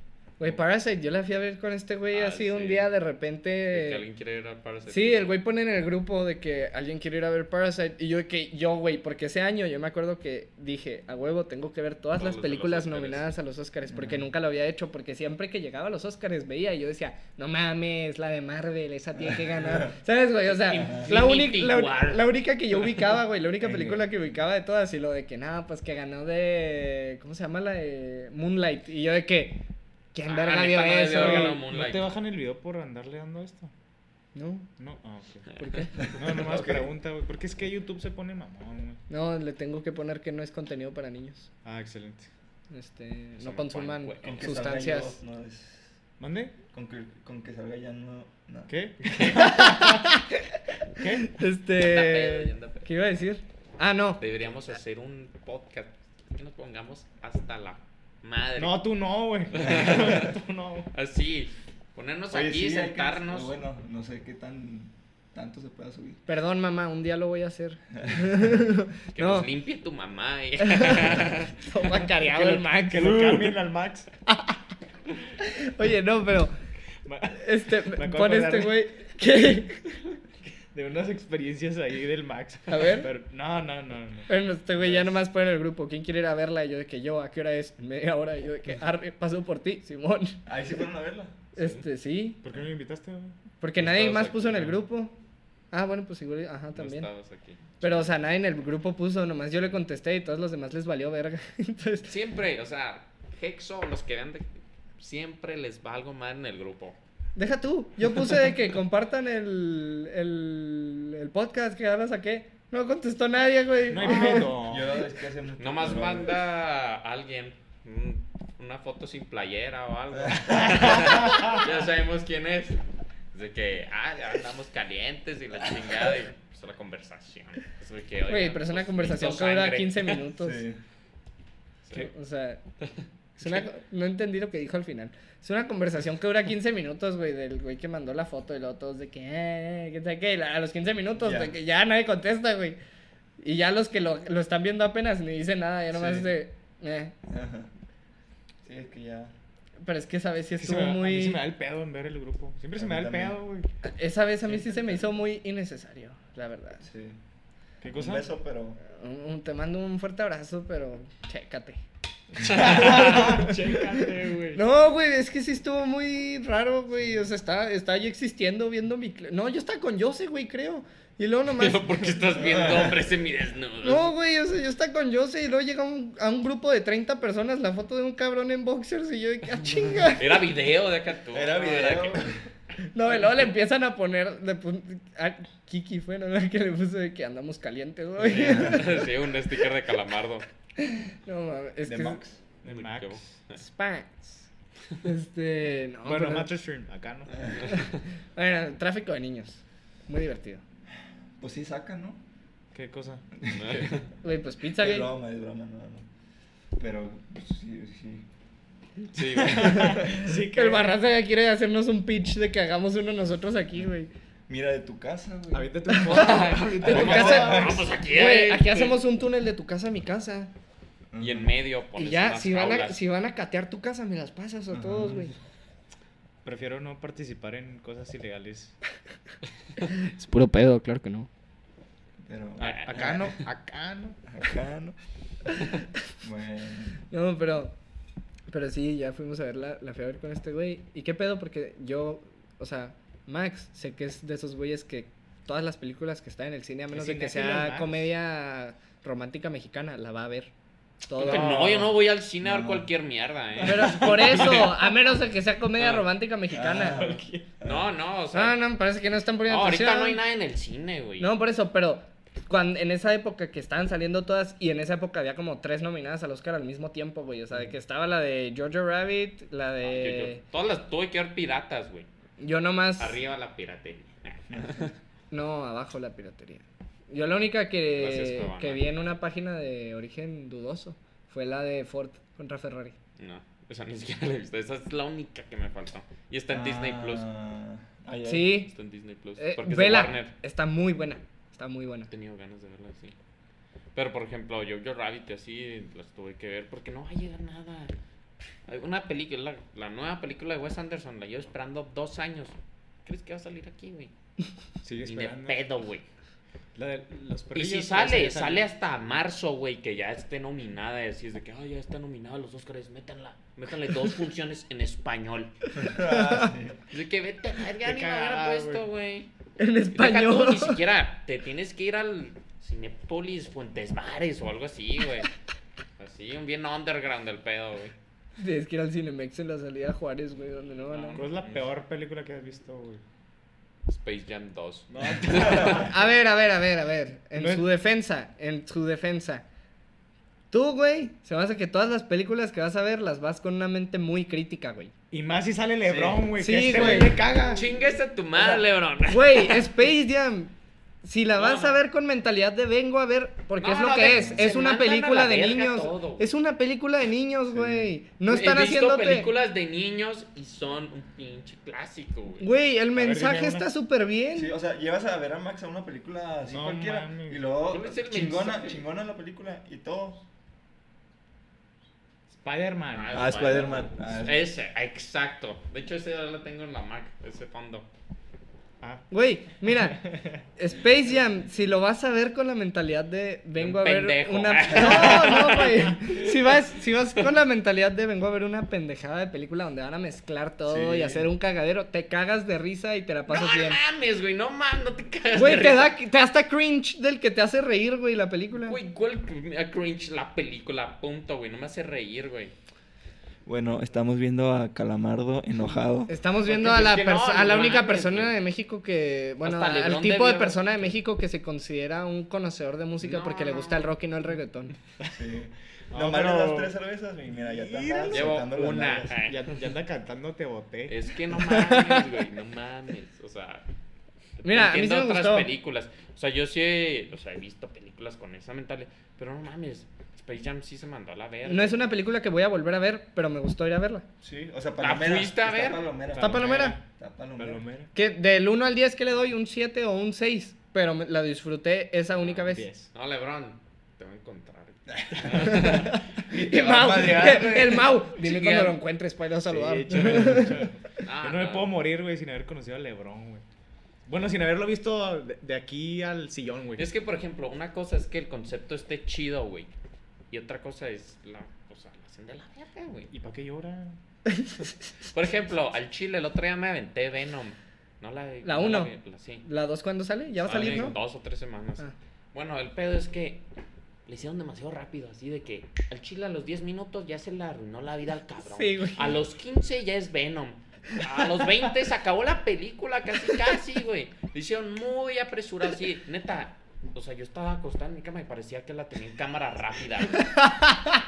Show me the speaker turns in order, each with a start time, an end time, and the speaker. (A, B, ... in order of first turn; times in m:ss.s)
0:00.4-0:04.0 A
0:02.1-0:02.9 B
0:03.7-0:05.3 B
0:04.9-0:29.6 A
0:12.2-0:13.3 B
0:13.9-0:14.2 C
0:19.2-0:20.0 C
0:20.5-0:22.3 B
0:22.8-0:23.1 B
0:23.6-0:24.0 C
0:30.1-0:31.6 A
0:30.3-0:32.1 B
0:31.1-0:33.7 D
0:34.3-0:34.7 A
0:34.8-0:35.6 D
0:35.6-0:36.0 A
0:36.0-0:36.9 C
0:36.1-0:39.0 D
0:39.1-0:41.5 A
0:41.6-0:42.3 D
0:42.7-0:45.2 A
0:43.4-0:44.6 B
0:44.2-0:46.0 C
0:46.2-0:46.5 D
0:46.7-0:48.7 C
0:48.7-0:50.1 D
0:49.1-0:49.4 B
0:49.3-0:50.6 A
0:51.0-0:51.4 D
0:51.2-0:54.2 A
0:51.7-0:52.9 B
0:54.2-0:58.8 B
0:58.5-1:00.9 D
0:59.5-1:00.3 B
1:00.9-1:03.5 B
1:02.3-1:06.2 C
1:06.3-1:09.5 A
1:08.0-1:08.4 C
1:09.1-1:11.5 B
1:10.6-1:13.5 A
1:12.3-1:14.1 D
1:15.4-1:16.5 A
1:17.0-1:18.8 D
1:17.3-1:20.0 A
1:20.7-1:24.3 D
1:22.7-1:23.1 A
1:24.3-1:30.4 A
1:30.4-1:31.5 C
1:31.6-1:32.4 A
1:32.4-1:33.4 D
1:33.6-1:35.2 A
1:33.8-1:34.6 B
1:35.7-1:37.1 A
1:36.7-1:38.0 B
1:37.8-1:42.1 A
1:42.1-1:47.0 B
1:47.4-1:54.5 A
1:53.9-1:55.0 D
1:54.0-1:56.3 C
1:55.6-2:10.2 B
2:00.2-2:00.9 C
2:00.8-2:01.4 D
2:08.3-2:10.6 A
2:10.4-2:10.8 C
2:11.9-2:12.6 A
2:13.4-2:22.8 A
2:21.2-2:21.5 C
2:23.4-2:27.1 A
2:25.9-2:26.3 C
2:27.2-2:27.7 C
2:28.6-2:29.3 C
2:29.8-2:31.4 A
2:30.6-2:33.7 D
2:32.8-2:33.4 C
2:33.8-2:36.9 A
2:36.8-2:37.2 C
2:37.8-2:38.3 D
2:37.9-2:38.8 C
2:38.8-2:41.8 A
2:42.4-2:44.6 B
2:42.6-2:43.8 D
2:44.5-2:52.4 A
2:51.6-2:54.1 B
2:52.4-2:52.9 C
2:53.8-3:00.4 A
3:00.2-3:02.3 B
3:01.3-3:02.4 C
3:02.9-3:09.0 A
3:03.1-3:03.4 B
3:08.2-3:10.4 B
3:08.3-3:08.8 C
3:10.8-3:12.2 A
3:11.8-3:12.4 C
3:12.6-3:13.2 D
3:12.6-3:13.6 B
3:13.6-3:14.5 A
3:15.0-3:16.5 A
3:16.0-3:17.5 D
3:17.6-3:20.6 A
3:21.4-3:22.2 C
3:22.7-3:23.2 D
3:23.4-3:24.0 C
3:23.5-3:24.1 B
3:24.2-3:25.1 A
3:24.8-3:26.1 C
3:26.8-3:28.2 C
3:29.1-3:30.0 B
3:29.4-3:31.0 D
3:29.6-3:34.1 A
3:29.6-3:30.2 C
3:34.5-3:36.2 C
3:35.5-3:37.8 D
3:35.9-3:40.5 A
3:36.1-3:39.0 B
3:36.8-3:37.9 C
3:41.1-3:41.5 C
3:41.2-3:43.0 B
3:42.0-3:45.3 A
3:44.7-3:45.3 C
3:46.4-3:48.7 D
3:49.8-3:51.3 A
3:52.2-3:53.1 C
3:52.6-3:53.4 B
3:52.6-3:54.2 D
3:54.3-3:55.0 C
3:56.2-3:57.0 C
3:57.1-3:57.7 A
3:58.5-4:10.5 A
4:06.9-4:08.1 D
4:11.0-4:11.5 A
4:11.2-4:14.9 B
4:11.2-4:11.9 C
4:12.4-4:12.9 C
4:13.6-4:17.0 A
4:15.8-4:16.0 B
4:16.5-4:17.9 C
4:16.9-4:17.4 D
4:17.6-4:18.6 B
4:18.3-4:20.2 A
4:19.4-4:21.3 B
4:21.2-4:30.4 A
4:29.8-4:32.1 B
4:32.4-4:33.2 A
4:33.0-4:34.9 B
4:34.5-4:34.8 C
4:35.3-4:42.9 A
4:38.0-4:38.8 B
4:43.2-4:47.3 B
4:46.5-4:48.6 C
4:48.2-4:48.7 A
4:48.6-4:50.3 B
4:49.4-4:52.1 A
4:52.1-4:53.1 B
4:53.9-4:57.9 B
4:58.7-5:04.1 B
5:04.8-5:05.6 D
5:05.0-5:06.0 B
5:06.7-5:08.7 D
5:07.5-5:15.5 B
5:15.7-5:16.8 C
5:15.8-5:16.5 A
5:16.9-5:19.3 B
5:17.8-5:18.8 D
5:19.6-5:20.8 A
5:19.9-5:25.3 B
5:26.0-5:27.9 B
5:28.4-5:31.2 A
5:30.9-5:31.7 B
5:31.1-5:33.0 D
5:33.9-5:35.9 B
5:34.9-5:35.9 D
5:35.6-5:39.4 A
5:37.4-5:37.7 D
5:40.5-5:44.9 A
5:45.1-5:47.7 D
5:45.8-5:46.9 C
5:46.4-5:47.2 A
5:47.3-5:49.7 B
5:48.4-5:50.5 A
5:51.0-5:59.3 A
5:51.4-5:51.8 B
5:53.6-5:56.3 B
5:57.5-5:57.9 C
5:58.3-6:02.5 B
6:02.4-6:04.5 A
6:02.9-6:03.7 D
6:04.3-6:10.2 C
6:06.5-6:07.4 D
6:07.7-6:08.8 B
6:12.3-6:13.9 D
6:12.9-6:17.9 B
6:13.1-6:14.4 C
6:19.1-6:20.0 A
6:19.6-6:20.4 D
6:20.6-6:33.8 A
6:23.6-6:26.3 B
6:30.7-6:31.3 C
6:33.3-6:35.9 B
6:35.3-6:38.8 A
6:38.7-6:42.5 B
6:43.4-6:46.1 C
6:46.1-6:54.7 A
6:46.5-6:48.3 B
6:46.5-6:47.0 D
6:49.4-6:50.9 B
6:53.0-6:53.9 B
6:55.1-6:59.1 C
6:55.9-6:56.8 D
6:57.3-6:58.5 D
6:58.1-6:59.6 B
6:59.1-7:01.0 D
7:00.9-7:03.6 B
7:04.4-7:11.8 B
7:04.4-7:05.5 A
7:11.4-7:14.0 A
7:14.2-7:17.6 C
7:14.8-7:15.9 B
7:16.1-7:16.8 D
7:16.2-7:16.8 A
7:17.4-7:17.9 D
7:17.9-7:22.7 A
7:22.5-7:22.9 D
7:22.9-7:26.0 B
7:25.0-7:27.9 C
7:25.4-7:30.6 A
7:28.1-7:28.8 B
7:29.4-7:33.4 D
7:31.0-7:31.8 B
7:34.1-7:36.9 D
7:36.8-7:39.7 B
7:40.3-7:43.1 B
7:43.1-7:44.0 D
7:44.3-7:44.7 A
7:45.1-7:49.4 B
7:48.4-7:48.9 A
7:49.4-7:51.0 A
7:50.4-7:53.4 B
7:54.1-8:10.4 B
7:58.4-7:59.1 A